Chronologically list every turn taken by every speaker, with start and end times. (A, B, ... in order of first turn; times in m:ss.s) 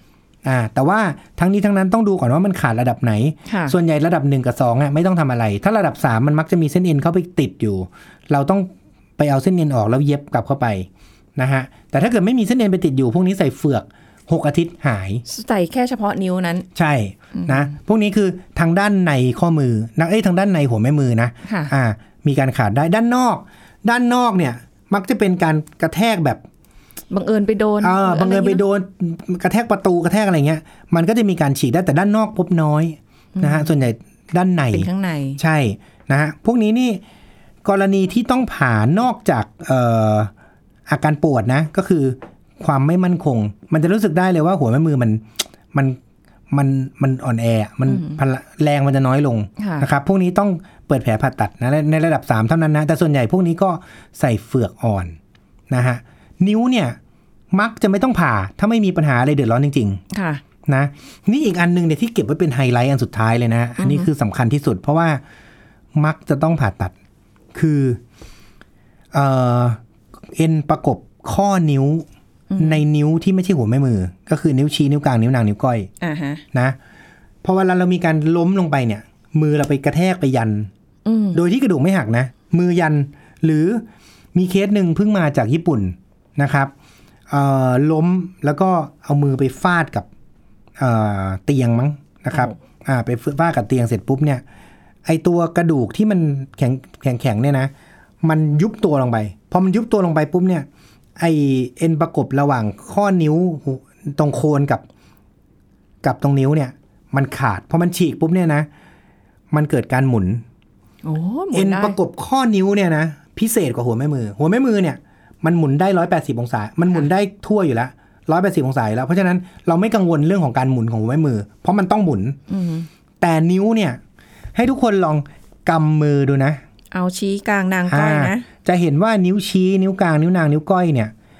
0:00.4-0:15.2 A
0:03.5-0:03.7 B
0:15.2-0:16.6 B
0:16.7-0:26.4 A
0:17.3-0:17.7 B
0:21.4-0:21.7 B
0:27.1-0:28.6 B
0:27.8-0:37.0 A
0:33.4-0:33.8 B
0:34.7-0:35.4 B
0:37.6-0:40.3 A
0:40.9-0:46.0 A
0:46.5-0:55.2 A
0:47.8-0:48.2 B
0:49.6-0:49.9 B
0:55.7-0:57.0 A
0:57.5-1:00.0 A
1:00.1-1:00.4 B
1:00.7-1:05.2 A
1:03.8-1:04.1 B
1:05.9-1:06.9 A
1:07.5-1:08.0 A
1:09.1-1:09.8 A
1:10.3-1:12.0 A
1:12.5-1:12.8 B
1:12.6-1:15.9 A
1:16.0-1:16.4 B
1:17.4-1:20.7 A
1:21.0-1:21.4 B
1:21.3-1:26.7 A
1:27.3-1:30.1 A
1:30.8-1:34.4 A
1:35.0-1:37.7 A
1:38.2-1:40.7 A
1:41.2-1:44.8 A
1:46.0-1:48.7 A
1:49.5-1:50.4 A
1:51.0-1:52.0 B
1:51.5-2:02.4 A
2:02.5-2:02.9 B
2:03.2-2:04.0 A
2:04.5-2:06.6 A
2:06.9-2:08.4 B
2:07.9-2:11.1 A